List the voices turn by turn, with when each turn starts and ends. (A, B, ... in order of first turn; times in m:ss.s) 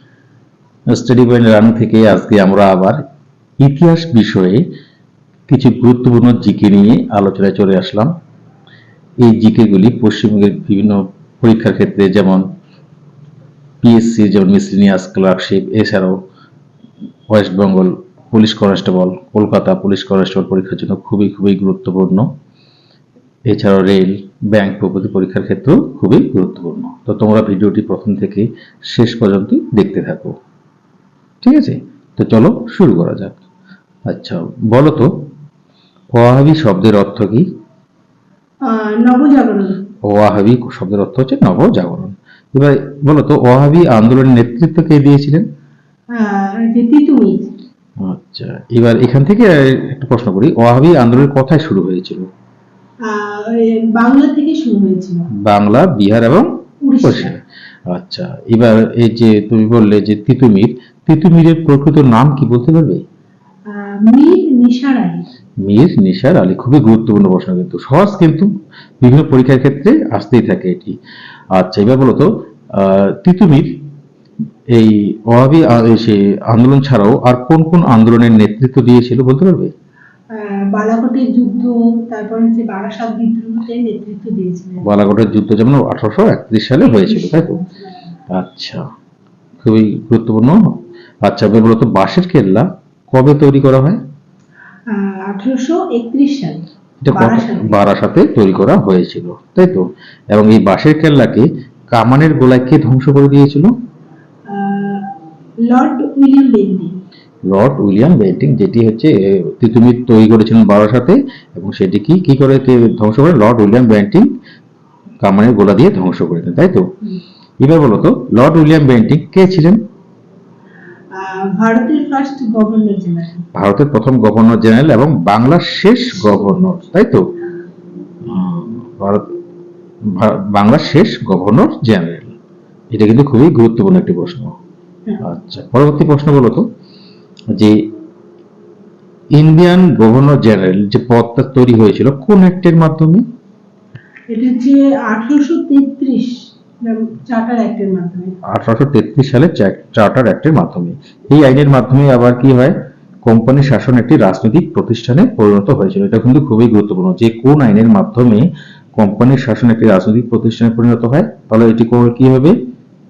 0:01.0-0:03.0 A
0:03.6-0:04.6 A
0:05.5-0:08.1 A
0:09.2-0:12.5 A
0:13.8-0:16.2 A
0:17.3-0:22.3 A
0:23.5-0:30.4 A
0:31.4-0:33.4 A
0:34.1-0:35.1 A
0:36.2-0:37.5 A
0:38.6-0:39.8 B
0:40.0-0:45.5 A
0:46.1-0:47.5 B
0:48.0-0:52.3 A
0:53.0-0:55.3 B
0:55.4-0:56.5 A
0:56.8-0:57.3 B
0:57.0-1:03.0 A
1:03.7-1:05.3 B
1:05.6-1:08.5 A
1:09.0-1:11.0 A
1:11.6-1:13.7 A
1:14.8-1:19.7 A
1:20.3-1:24.9 B
1:24.8-1:27.6 A
1:26.8-1:27.9 B
1:28.3-1:28.8 A
1:29.6-1:30.6 A
1:31.2-1:34.0 A
1:34.9-1:37.8 B
1:37.0-1:43.7 A
1:44.5-1:45.1 B
1:45.7-1:46.9 B
1:47.5-1:54.3 A
1:55.2-1:56.8 A
1:57.6-1:59.8 A
2:01.1-2:03.4 B
2:03.6-2:07.2 A
2:06.2-2:06.6 B
2:08.2-2:09.2 A
2:10.1-2:12.4 A
2:12.9-2:14.5 A
2:15.2-2:16.7 A
2:19.4-2:23.2 A
2:24.3-2:28.4 B
2:28.5-2:32.8 A
2:33.3-2:42.6 A